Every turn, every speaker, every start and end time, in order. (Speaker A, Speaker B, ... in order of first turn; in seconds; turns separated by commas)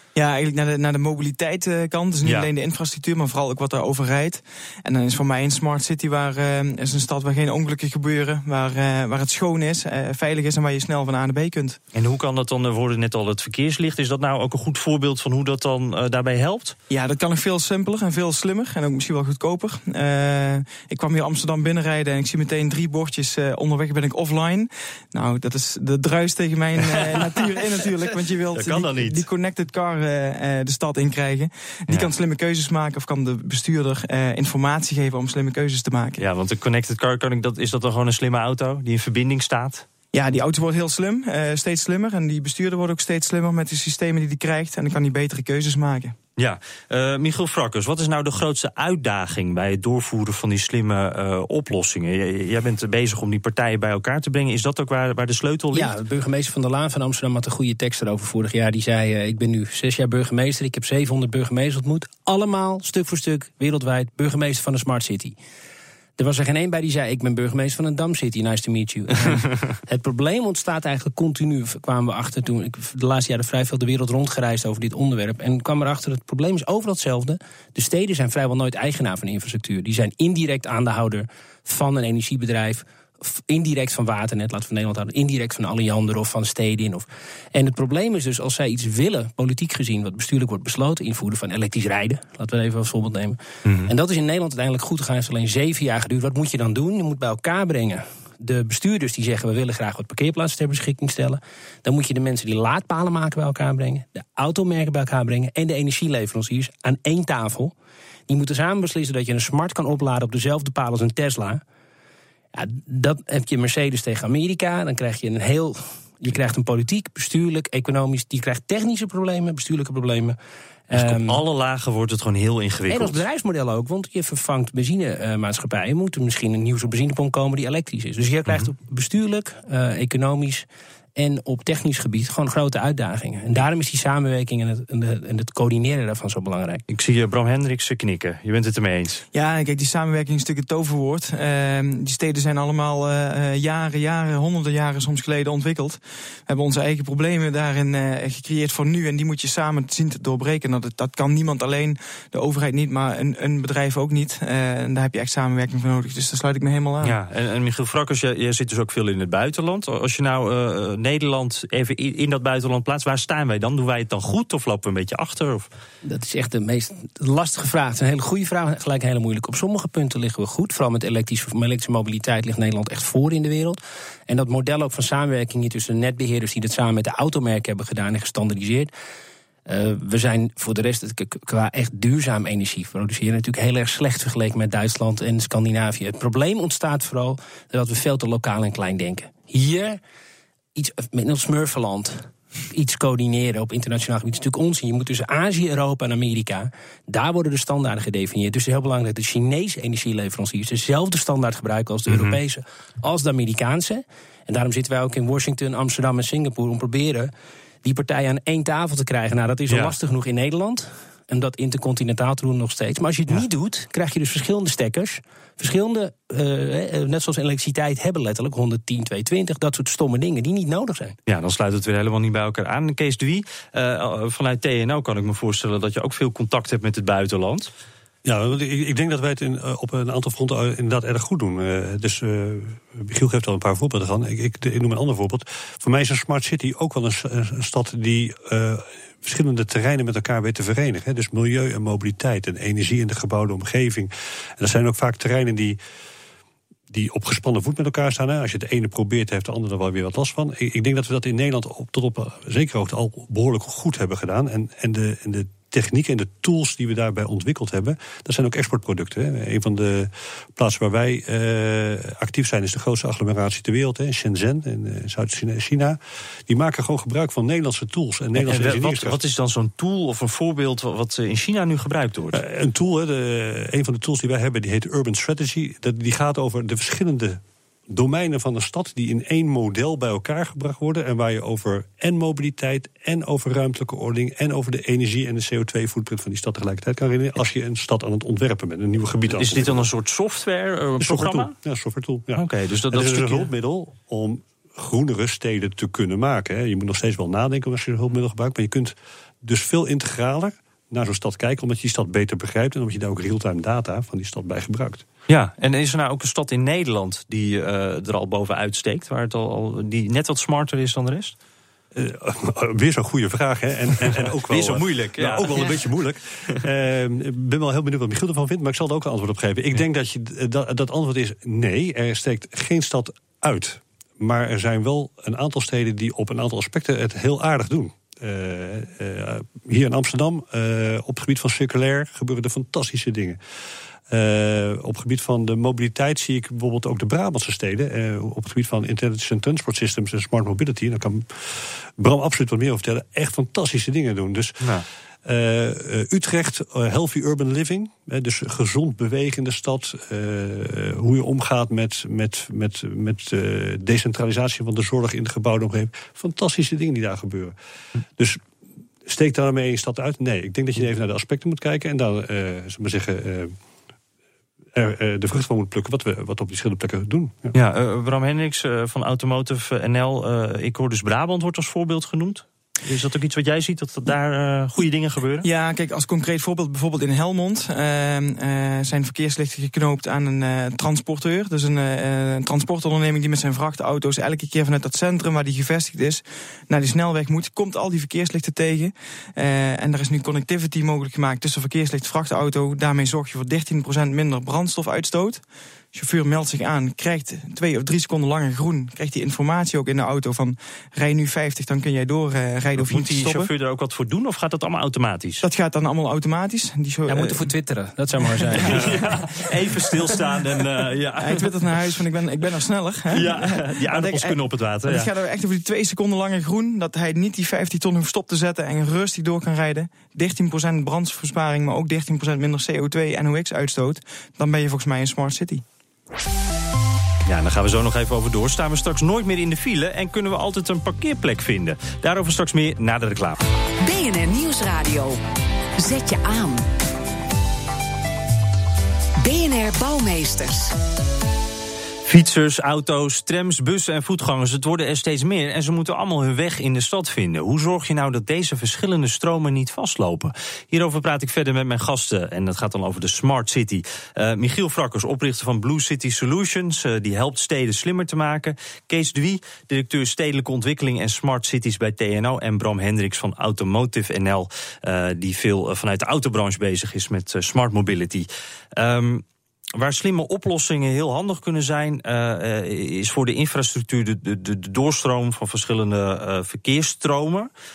Speaker A: 0.1-11.8, Speaker B: 2.2-2.5, Speaker B: 11.9-16.8, Speaker A: 16.9-36.2, Speaker B: 26.9-27.4, Speaker B: 28.5-29.3, Speaker B: 36.2-39.9, Speaker A: 40.1-46.1, Speaker B: 46.4-56.0, Speaker C: 55.7-65.4, Speaker C: 66.2-107.7, Speaker B: 93.7-93.9, Speaker C: 108.3-111.6, Speaker C: 112.5-120.4, Speaker C: 120.9-121.4, Speaker B: 120.9-123.2, Speaker C: 122.9-136.8, Speaker B: 136.9-139.2, Speaker A: 139.3-157.2, Speaker B: 157.0-165.7, Speaker C: 166.0-178.9, Speaker C: 179.7-190.0, Speaker C: 190.8-207.3, Speaker B: 202.1-202.4, Speaker C: 207.8-221.2, Speaker B: 209.7-209.9, Speaker B: 221.3-227.7, Speaker D: 228.2-245.8, Speaker D: 246.9-269.2, Speaker B: 268.4-272.4, Speaker D: 272.3-289.9, Speaker B: 289.4-291.6, Speaker D: 291.0-305.0, Speaker B: 292.3-293.5, Speaker B: 305.3-311.4, Speaker D: 311.9-333.4, Speaker B: 314.0-315.9, Speaker D: 334.1-344.7, Speaker D: 345.2-357.6, Speaker D: 359.1-363.6, Speaker D: 364.7-367.6, Speaker B: 367.5-375.5, Speaker A: 375.4-395.4, Speaker A: 395.9-403.5, Speaker B: 402.8-405.4, Speaker A: 405.4-407.4, Speaker C: 407.1-409.0, Speaker B: 408.6-411.7, Speaker A: 411.2-425.6, Speaker B: 413.1-415.1, Speaker B: 427.3-433.4, Speaker E: 433.8-435.2, Speaker E: 435.8-436.6, Speaker E: 439.2-440.8, Speaker B: 442.1-469.2, Speaker B: 469.8-477.5